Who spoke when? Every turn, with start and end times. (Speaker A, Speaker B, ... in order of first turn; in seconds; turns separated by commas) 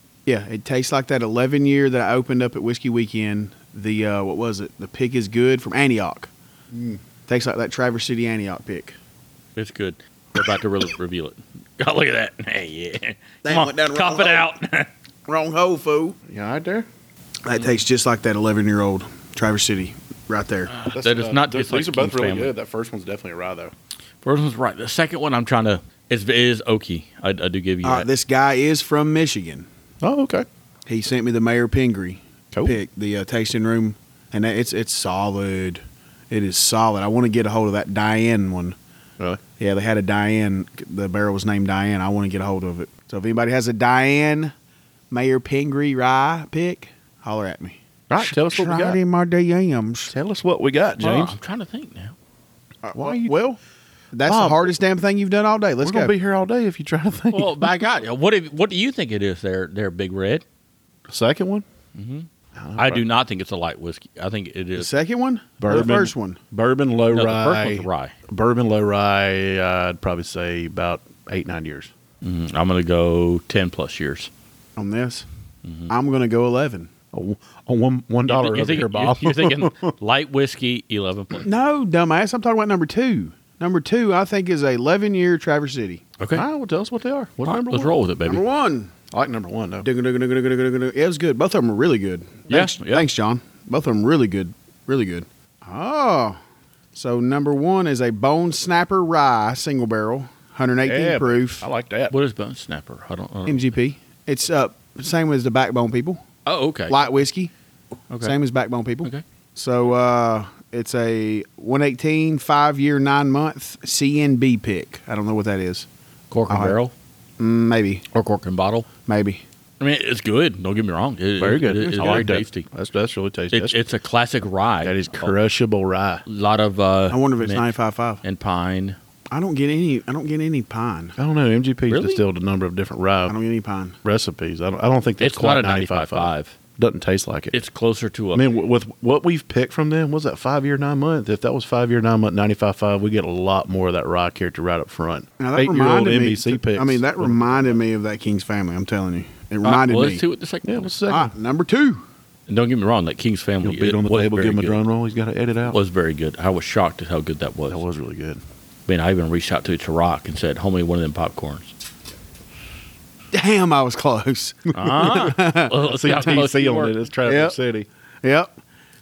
Speaker A: 0.2-6.3, Speaker B: 6.7-7.0, Speaker A: 7.3-8.9, Speaker C: 9.6-14.9, Speaker A: 13.4-14.5, Speaker A: 15.3-16.2, Speaker B: 16.3-16.9, Speaker A: 17.4-20.7, Speaker C: 20.7-22.5, Speaker B: 20.8-23.7, Speaker C: 24.2-28.1, Speaker A: 27.8-29.7, Speaker B: 30.0-30.4, Speaker A: 30.9-38.8, Speaker B: 32.5-32.8, Speaker A: 39.6-44.5, Speaker A: 45.1-50.1, Speaker B: 48.1-49.0, Speaker B: 50.1-51.4, Speaker C: 51.0-52.1, Speaker A: 52.8-53.6, Speaker B: 52.9-53.3, Speaker A: 54.1-56.1, Speaker B: 54.2-54.8, Speaker B: 55.8-57.6, Speaker C: 57.3-60.4, Speaker B: 61.1-61.6, Speaker C: 61.9-64.9, Speaker B: 62.5-63.0, Speaker A: 64.8-66.4, Speaker B: 65.6-71.9, Speaker C: 67.1-68.1, Speaker C: 72.2-74.3, Speaker A: 74.8-75.2, Speaker C: 75.6-75.9, Speaker A: 75.9-76.9, Speaker B: 77.1-79.9, Speaker C: 78.3-81.5, Speaker A: 81.4-86.0, Speaker C: 86.2-86.4, Speaker B: 86.3-87.9, Speaker C: 87.4-88.4, Speaker A: 88.2-88.9, Speaker B: 89.1-89.9, Speaker A: 89.8-96.4, Speaker C: 92.5-93.1, Speaker A: 96.9-101.7, Speaker B: 100.8-102.1, Speaker C: 102.1-103.7, Speaker A: 103.5-106.2, Speaker C: 106.5-107.2, Speaker A: 106.9-107.5, Speaker C: 108.1-108.3, Speaker A: 108.2-115.9, Speaker C: 116.3-116.9, Speaker A: 116.5-116.8, Speaker A: 117.4-118.0, Speaker C: 118.1-118.9, Speaker A: 119.0-119.4, Speaker C: 119.8-122.7, Speaker B: 121.4-123.8, Speaker A: 122.0-122.3, Speaker C: 123.5-125.3, Speaker B: 124.8-126.2, Speaker C: 126.2-129.0, Speaker A: 127.1-128.2, Speaker A: 129.3-131.2, Speaker B: 131.2-133.3, Speaker C: 131.9-132.2, Speaker A: 133.3-134.0, Speaker B: 134.0-137.5, Speaker C: 135.2-136.5, Speaker C: 137.5-138.5, Speaker B: 138.3-147.7, Speaker A: 145.4-150.2, Speaker C: 149.6-150.9, Speaker B: 150.6-151.3, Speaker A: 151.1-152.0, Speaker C: 152.5-154.8, Speaker B: 153.6-155.8, Speaker C: 155.7-157.8, Speaker B: 157.7-158.4, Speaker C: 158.9-161.7, Speaker A: 163.3-165.8, Speaker C: 164.7-167.0, Speaker B: 165.8-167.9, Speaker A: 167.2-167.5, Speaker A: 168.2-168.5